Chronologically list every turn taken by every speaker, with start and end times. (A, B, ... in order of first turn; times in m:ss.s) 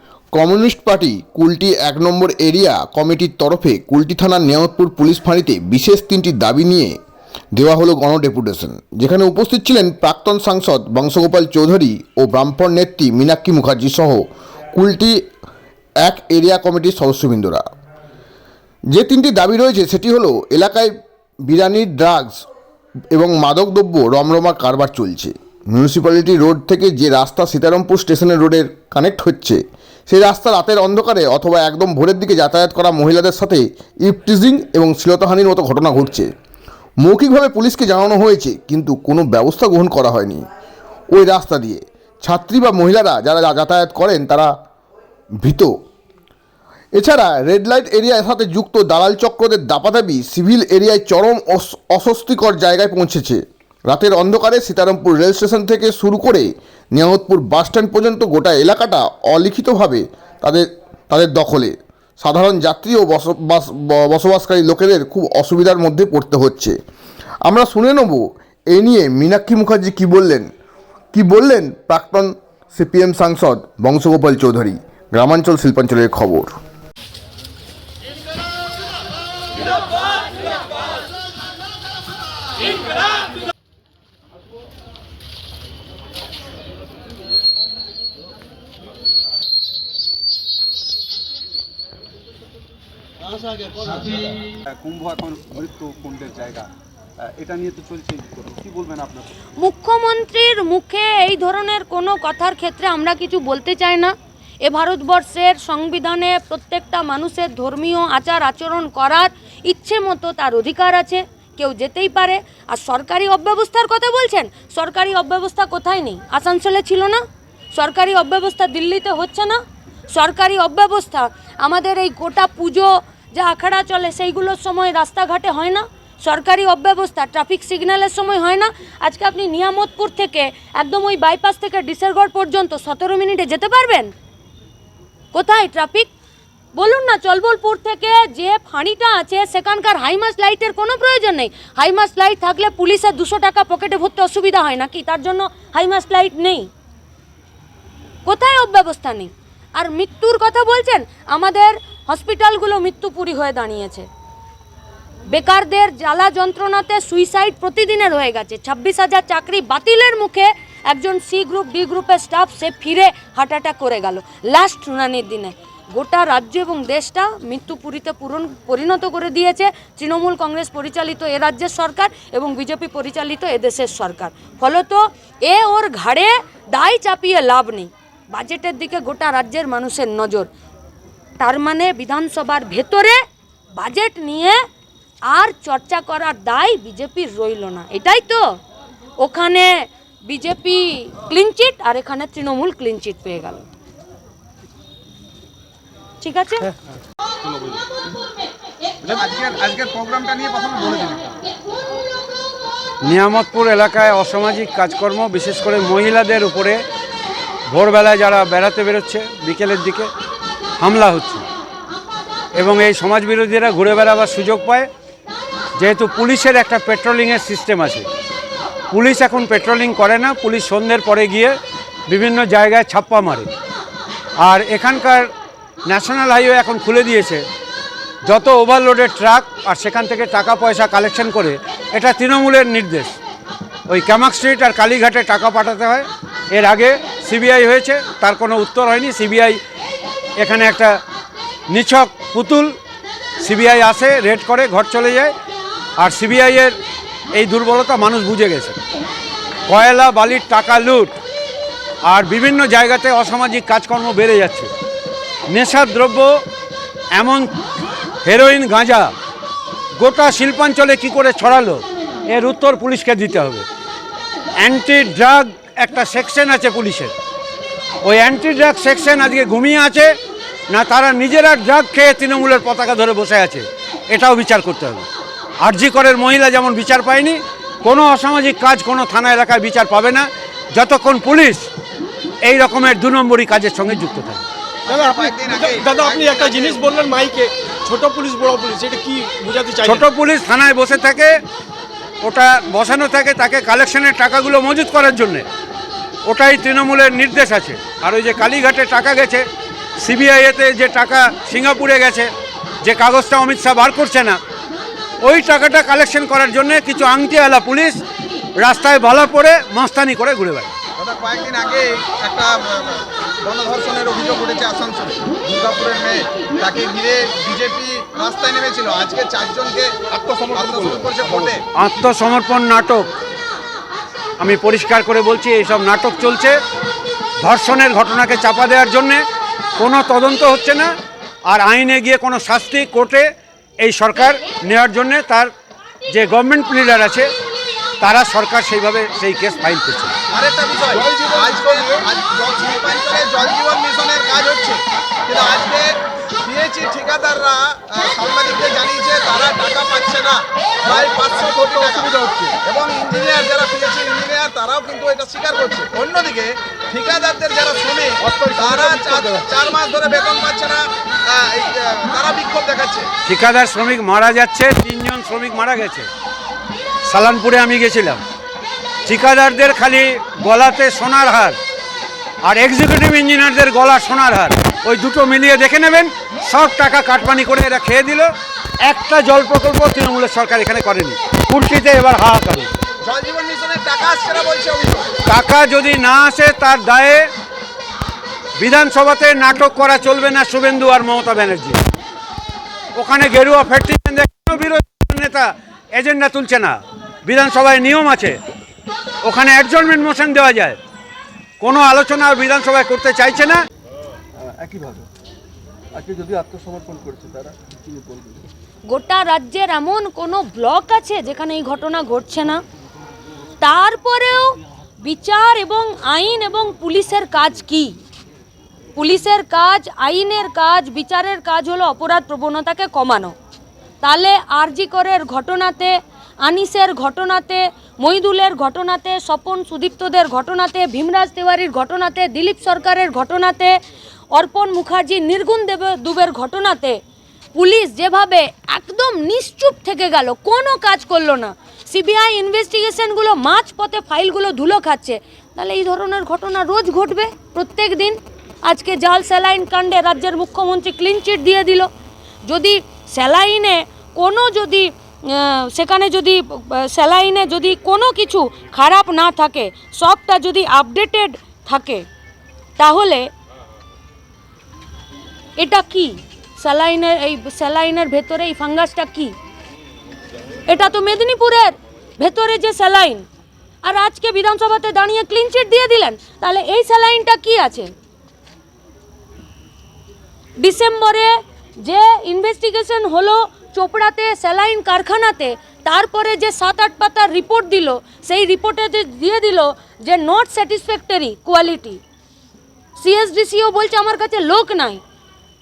0:00.3-0:06.9 A
0:07.5-0:15.2 A
0:16.0-0:17.6 A
0:18.9-0:20.9 A
0:21.5-0:22.5 A
0:23.1-0:36.3 A
0:37.0-0:40.4 A
0:41.1-0:44.5 A
0:45.4-0:45.7 A
0:47.0-1:06.8 A
1:07.4-1:10.5 A
1:11.1-1:16.6 A
1:34.7-1:36.7 B
1:35.6-1:35.9 C
1:37.2-1:39.3 B
1:39.6-1:57.2 D
1:57.7-1:59.6 D
2:00.1-2:14.1 D
2:15.3-2:16.1 D
2:16.7-2:26.7 D
2:28.2-2:34.1 D
2:35.3-3:00.5 D
3:01.4-3:03.2 D
3:03.7-3:04.6 D
3:05.2-3:08.6 D
3:09.2-3:13.7 D
3:16.2-3:16.7 D
3:19.0-3:21.3 E
3:23.0-3:26.8 C
3:27.7-3:30.1 C
3:30.8-3:31.4 C
3:32.6-3:34.9 C
3:35.8-3:38.1 C
3:38.9-3:41.6 C
3:42.1-3:43.5 C
3:44.4-3:45.3 C
3:45.9-3:47.4 C
3:48.2-3:53.2 C
3:53.9-3:59.6 C
4:00.4-4:01.0 C
4:01.7-4:02.7 C
4:03.4-4:05.3 C
4:06.0-4:06.7 C
4:07.3-4:08.8 C
4:09.7-4:11.1 C
4:12.0-4:14.7 C
4:15.5-4:16.4 C
4:17.1-4:17.6 C
4:18.2-4:19.1 C
4:20.0-4:23.6 C
4:24.6-4:27.1 C
4:28.0-4:30.1 C
4:30.7-4:35.1 C
4:35.6-4:41.7 C
4:42.4-4:44.4 C
4:44.8-4:46.9 E
4:44.9-4:50.0 F
4:49.8-4:51.3 C
4:52.2-4:55.5 C
4:56.2-4:59.4 C
5:00.0-5:02.3 C
5:02.8-5:04.4 C
5:05.2-5:08.0 C
5:08.6-5:10.7 C
5:11.0-5:21.6 E
5:21.7-5:23.1 C
5:24.4-5:26.6 C
5:27.4-5:29.2 C
5:29.8-5:30.9 C
5:31.4-5:35.5 C
5:36.1-5:37.3 C
5:38.0-5:40.1 C
5:40.3-6:03.1 E
5:51.3-5:52.6 F
5:58.3-5:59.4 F
6:03.2-6:06.1 C
6:07.0-6:08.2 C
6:09.0-6:11.6 C
6:12.4-6:22.7 C
6:23.0-6:25.2 E
6:25.2-6:27.3 C
6:28.6-6:31.8 C
6:33.0-6:38.4 C
6:39.2-6:40.8 C
6:41.6-6:43.6 C
6:44.4-6:44.9 B
6:45.9-6:48.3 B
6:48.8-6:52.6 D
6:53.6-6:58.0 D
6:59.0-7:03.3 D
7:04.0-7:13.8 D
7:14.3-7:17.0 D
7:17.5-7:31.9 D
7:32.4-7:42.0 D
7:42.8-7:43.3 D
7:45.6-7:49.3 D
7:50.7-7:53.2 D
7:53.8-7:57.9 D
8:00.6-8:12.0 D
8:13.0-8:15.0 D